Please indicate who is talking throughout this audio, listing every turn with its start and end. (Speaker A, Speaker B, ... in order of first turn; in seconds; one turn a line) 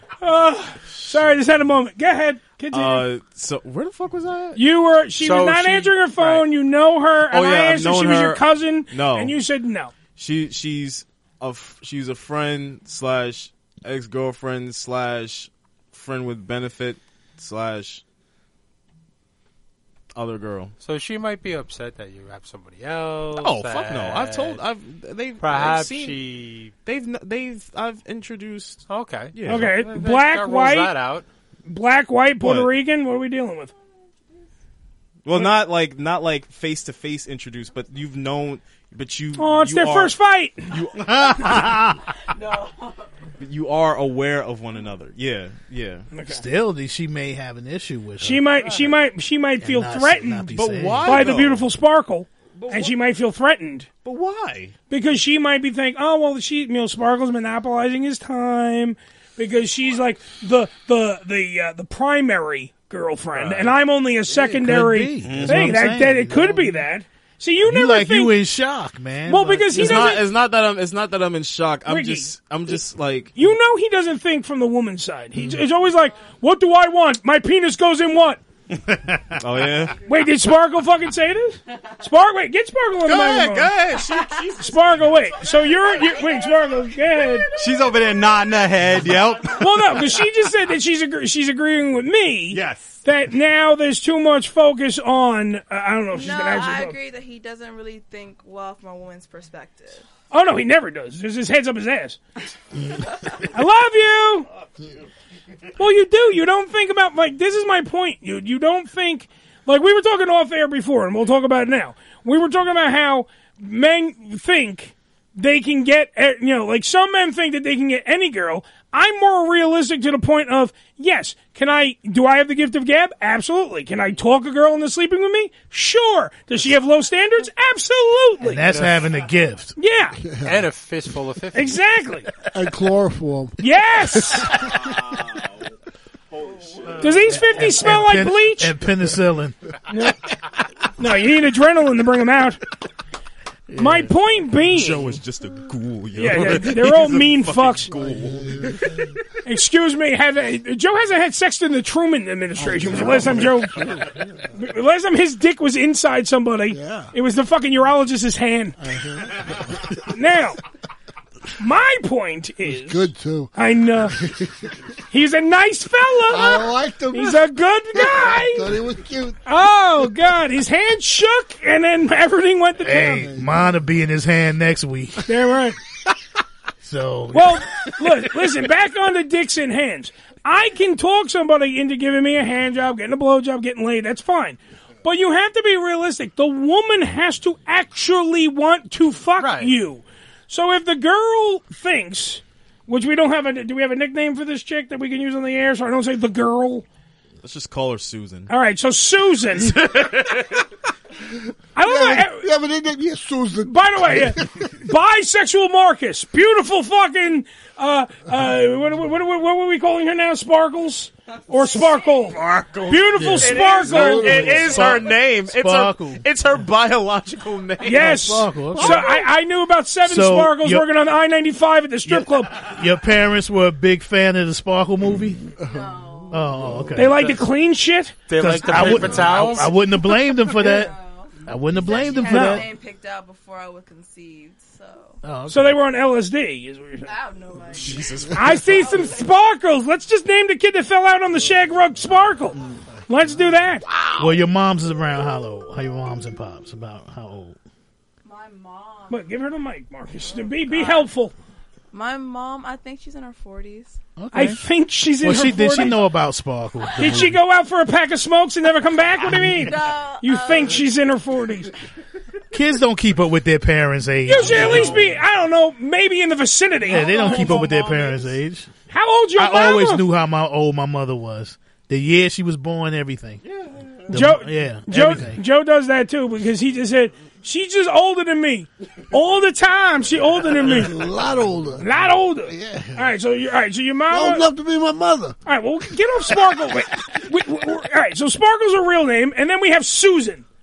Speaker A: 0.2-3.1
Speaker B: 2.7-4.6
Speaker A: 4.5-9.9
Speaker C: 5.2-6.5
Speaker B: 7.3-9.3
Speaker B: 10.2-18.0
Speaker B: 20.1-20.7
Speaker C: 20.8-24.6
Speaker B: 23.4-26.2
Speaker C: 25.4-26.7
Speaker B: 26.8-28.8
Speaker C: 28.9-31.2
Speaker B: 29.3-30.0
Speaker A: 29.4-30.9
Speaker A: 31.6-33.7
Speaker B: 32.4-32.7
Speaker B: 35.2-40.1
Speaker A: 39.4-40.7
Speaker B: 40.7-41.9
Speaker D: 42.3-43.0
Speaker B: 43.4-46.1
Speaker A: 46.1-46.4
Speaker E: 46.3-48.5
Speaker A: 48.2-53.9
Speaker E: 49.6-51.3
Speaker B: 50.5-51.7
Speaker B: 52.6-53.0
Speaker B: 54.0-54.7
Speaker A: 54.9-68.3
Speaker B: 63.3-63.7
Speaker E: 64.3-66.8
Speaker B: 65.2-65.8
Speaker E: 67.6-70.2
Speaker A: 69.3-70.2
Speaker B: 69.7-73.3
Speaker A: 71.9-72.3
Speaker A: 73.3-78.4
Speaker B: 79.4-80.0
Speaker A: 80.1-83.8
Speaker B: 83.0-85.0
Speaker A: 84.5-87.5
Speaker F: 87.5-89.6
Speaker A: 89.5-97.0
Speaker F: 92.5-92.9
Speaker D: 96.1-100.1
Speaker A: 100.3-102.2
Speaker A: 103.5-104.5
Speaker A: 105.8-128.7
Speaker E: 128.4-129.8
Speaker C: 128.6-129.0
Speaker A: 129.8-130.2
Speaker G: 130.2-130.7
Speaker C: 130.4-131.8
Speaker A: 131.5-132.3
Speaker G: 132.5-133.6
Speaker A: 133.6-134.5
Speaker B: 134.6-135.5
Speaker B: 136.3-137.0
Speaker A: 137.0-138.7
Speaker E: 137.3-139.5
Speaker A: 141.0-142.6
Speaker E: 143.7-144.1
Speaker A: 143.8-145.2
Speaker B: 144.7-148.9
Speaker A: 146.1-147.9
Speaker G: 148.0-149.0
Speaker A: 149.4-153.8
Speaker G: 152.6-154.4
Speaker A: 154.5-158.8
Speaker G: 156.7-157.1
Speaker G: 158.8-159.9
Speaker A: 160.1-160.6
Speaker A: 161.6-164.2
Speaker G: 162.6-163.5
Speaker G: 164.2-164.6
Speaker A: 165.1-168.7
Speaker G: 166.3-167.4
Speaker G: 167.9-169.4
Speaker A: 169.4-173.3
Speaker E: 172.8-175.3
Speaker G: 173.0-173.5
Speaker A: 175.3-175.8
Speaker E: 176.8-177.6
Speaker A: 177.3-196.8
Speaker C: 189.4-189.7
Speaker B: 197.4-198.5
Speaker A: 198.5-199.8
Speaker B: 199.7-200.4
Speaker A: 201.8-202.5
Speaker G: 201.8-204.7
Speaker A: 203.6-214.8
Speaker B: 212.5-218.2
Speaker E: 212.8-216.2
Speaker G: 213.9-214.8
Speaker A: 217.8-222.6
Speaker E: 218.0-219.0
Speaker E: 220.0-220.9
Speaker E: 222.1-225.4
Speaker G: 225.6-226.9
Speaker D: 225.6-226.4
Speaker E: 226.3-227.2
Speaker A: 226.9-228.2
Speaker C: 227.0-227.4
Speaker C: 228.3-229.7
Speaker E: 228.4-230.9
Speaker D: 228.7-228.9
Speaker D: 230.2-235.2
Speaker E: 231.4-232.7
Speaker A: 232.2-232.6
Speaker E: 235.2-235.8
Speaker A: 235.5-237.1
Speaker D: 237.0-239.3
Speaker B: 237.7-238.8
Speaker A: 238.3-243.8
Speaker E: 244.2-247.6
Speaker D: 248.2-249.3
Speaker A: 249.1-251.3
Speaker D: 250.2-251.1
Speaker D: 251.9-254.0
Speaker E: 254.2-254.6
Speaker A: 254.3-255.9
Speaker E: 255.2-257.4
Speaker A: 257.0-261.7
Speaker D: 259.4-260.9
Speaker E: 262.5-265.1
Speaker A: 264.2-267.7
Speaker E: 266.9-268.7
Speaker B: 267.2-268.3
Speaker A: 268.9-270.0
Speaker E: 269.4-273.4
Speaker E: 274.1-275.4
Speaker A: 274.1-281.0
Speaker G: 280.6-283.0
Speaker A: 281.8-284.4
Speaker G: 284.1-285.4
Speaker A: 285.4-290.4